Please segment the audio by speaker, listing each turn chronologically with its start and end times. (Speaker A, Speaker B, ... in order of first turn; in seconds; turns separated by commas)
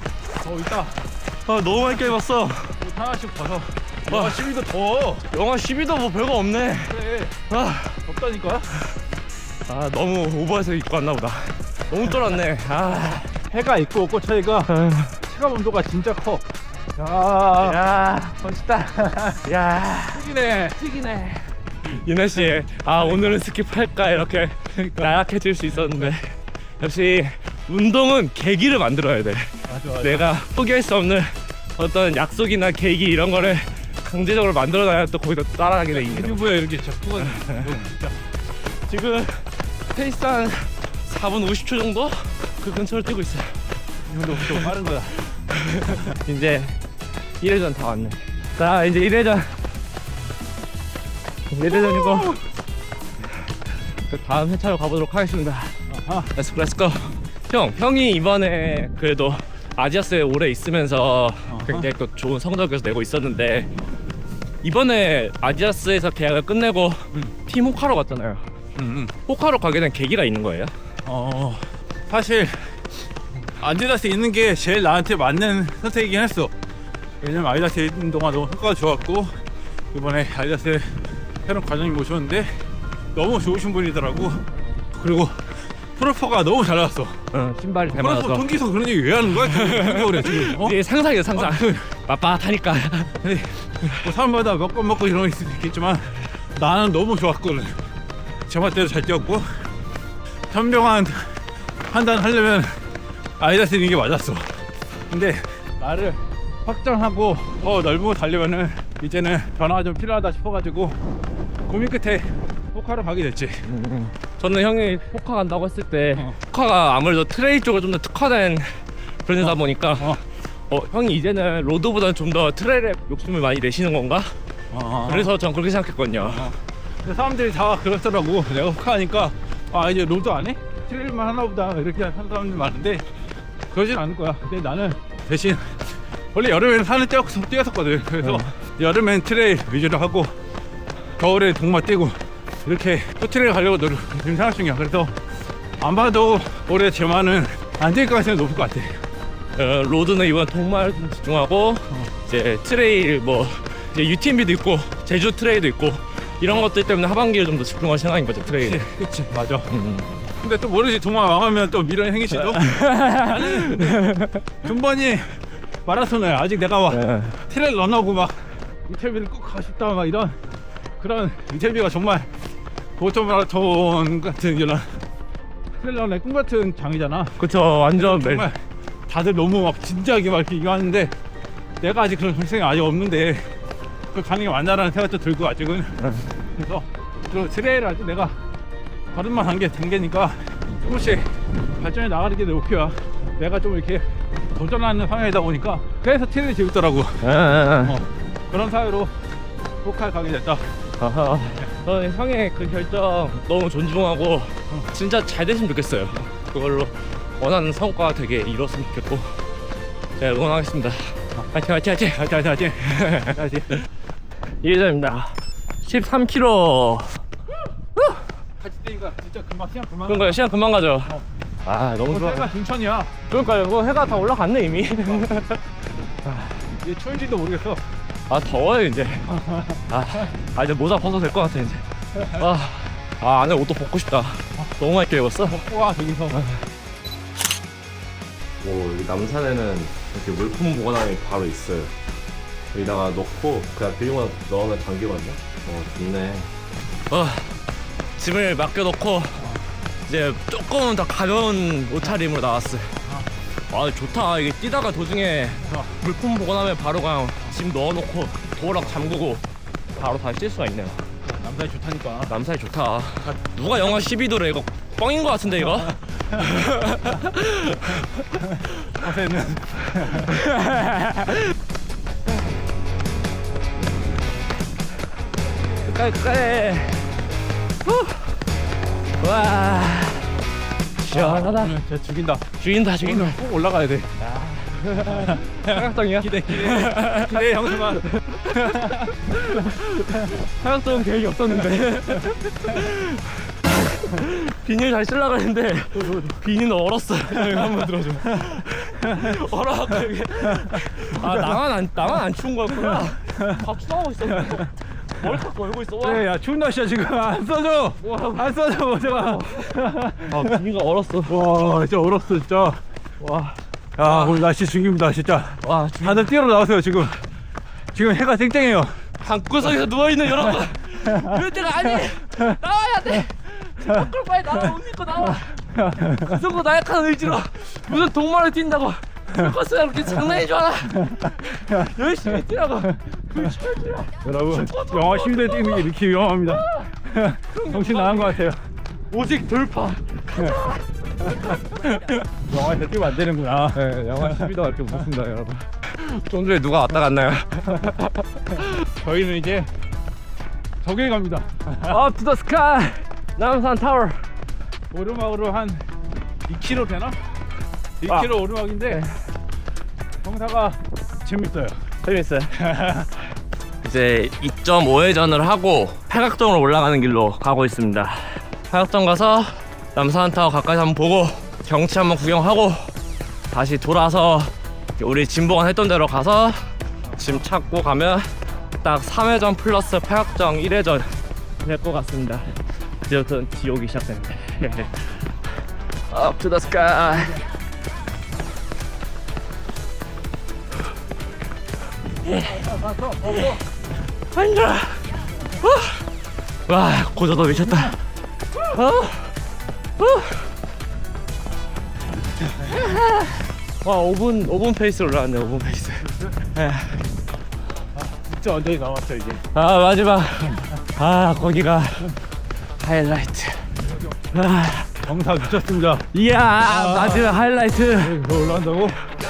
Speaker A: 0.4-1.0, Speaker B: 1.4-2.8, Speaker A: 2.8-5.3, Speaker B: 4.0-4.5, Speaker B: 5.3-8.0, Speaker A: 6.8-7.4, Speaker A: 8.0-8.7, Speaker B: 9.7-13.3, Speaker A: 13.3-14.7, Speaker B: 14.7-15.2, Speaker A: 15.2-16.4, Speaker A: 16.9-17.8, Speaker B: 17.6-36.5, Speaker A: 19.0-19.3, Speaker A: 20.1-20.8, Speaker A: 23.0-23.3, Speaker A: 24.7-25.1, Speaker A: 29.7-30.3, Speaker A: 35.9-38.1, Speaker B: 37.2-37.7, Speaker B: 38.7-43.6, Speaker A: 44.1-45.2, Speaker B: 44.3-44.7, Speaker B: 45.5-46.8, Speaker B: 47.4-49.6, Speaker B: 51.5-52.4, Speaker A: 51.8-52.2, Speaker B: 54.0-55.8, Speaker A: 55.9-56.3, Speaker B: 56.3-63.7, Speaker A: 61.5-61.9, Speaker B: 64.6-68.4, Speaker A: 68.8-69.1, Speaker B: 69.3-70.7, Speaker A: 71.0-72.8, Speaker A: 73.6-76.5, Speaker A: 77.2-79.4, Speaker A: 79.9-82.6, Speaker A: 83.1-84.4, Speaker A: 84.9-87.2, Speaker B: 87.3-88.5, Speaker A: 87.9-90.8, Speaker B: 89.3-93.2, Speaker A: 91.3-91.8, Speaker A: 93.2-97.8, Speaker A: 98.5-99.5, Speaker A: 100.5-102.8, Speaker A: 103.4-104.6, Speaker A: 105.1-111.0, Speaker A: 111.7-113.7, Speaker B: 113.6-124.3, Speaker A: 119.4-120.2, Speaker A: 124.7-125.3, Speaker B: 125.0-126.5, Speaker A: 126.2-126.5, Speaker A: 127.0-133.0, Speaker A: 133.7-140.3, Speaker A: 141.2-145.2, Speaker A: 145.8-149.0, Speaker B: 149.5-158.9, Speaker A: 158.9-159.7, Speaker B: 159.7-160.2, Speaker A: 160.3-164.0, Speaker B: 162.5-164.4, Speaker A: 164.6-170.4, Speaker B: 166.9-167.4, Speaker A: 171.0-172.3, Speaker A: 173.0-175.0, Speaker A: 175.8-177.3, Speaker B: 177.4-178.5, Speaker A: 177.9-181.1, Speaker A: 181.8-183.5, Speaker A: 184.1-188.4, Speaker B: 186.0-186.2, Speaker A: 189.1-197.3, Speaker B: 197.2-198.0, Speaker A: 197.8-199.1, Speaker A: 199.8-200.7, Speaker B: 201.0-209.4, Speaker B: 210.2-213.4, Speaker A: 212.2-213.8, Speaker B: 214.6-217.2, Speaker A: 218.6-220.4, Speaker B: 220.1-222.5, Speaker A: 222.1-223.2, Speaker B: 223.3-225.6, Speaker B: 226.2-226.7, Speaker A: 226.7-227.8, Speaker B: 228.3-229.3, Speaker A: 229.3-229.8, Speaker B: 229.9-235.6, Speaker A: 232.1-232.4, Speaker A: 235.4-236.4, Speaker B: 236.3-236.6, Speaker C: 238.6-241.9, Speaker C: 242.7-246.5, Speaker B: 247.1-247.6, Speaker B: 248.2-252.9, Speaker B: 253.7-259.4, Speaker B: 259.9-261.0, Speaker A: 261.2-262.3, Speaker B: 262.3-268.2, Speaker A: 268.9-270.4, Speaker B: 270.2-271.5, Speaker B: 275.8-277.1, Speaker B: 277.9-278.4, Speaker B: 279.2-280.3, Speaker B: 281.0-281.8, Speaker A: 281.1-284.1, Speaker B: 282.6-283.4, Speaker B: 284.2-306.2, Speaker A: 285.1-289.1, Speaker A: 295.9-296.3, Speaker A: 297.4-299.3, Speaker A: 300.4-301.6, Speaker A: 302.7-303.6, Speaker A: 304.3-304.6, Speaker A: 306.0-310.5, Speaker B: 308.0-311.4, Speaker A: 311.3-312.8, Speaker B: 313.2-314.5, Speaker A: 314.0-317.2, Speaker B: 315.6-316.3, Speaker A: 317.9-319.0, Speaker B: 319.2-336.9, Speaker A: 325.7-326.4, Speaker A: 331.0-331.8, Speaker A: 334.2-338.6, Speaker B: 337.5-338.5, Speaker B: 339.1-340.8, Speaker A: 341.4-344.5, Speaker B: 343.7-348.7, Speaker A: 349.0-349.7, Speaker A: 350.8-352.0, Speaker B: 351.9-354.3, Speaker A: 354.9-355.9, Speaker A: 356.5-357.2, Speaker A: 358.0-359.0, Speaker B: 358.0-359.1, Speaker A: 360.2-361.8, Speaker B: 362.0-362.7, Speaker A: 362.6-363.1, Speaker B: 363.8-372.9, Speaker B: 373.5-378.3, Speaker B: 378.8-385.2, Speaker C: 386.1-387.3, Speaker B: 386.1-387.4, Speaker B: 392.2-393.6, Speaker B: 394.3-396.0, Speaker B: 396.7-397.9, Speaker B: 398.7-399.3, Speaker B: 400.0-400.4, Speaker B: 402.6-407.0, Speaker A: 408.1-409.4, Speaker B: 409.5-412.1, Speaker B: 412.8-413.7, Speaker B: 414.3-414.9, Speaker A: 415.0-416.1, Speaker B: 416.1-418.2, Speaker A: 416.6-417.3, Speaker A: 418.0-419.0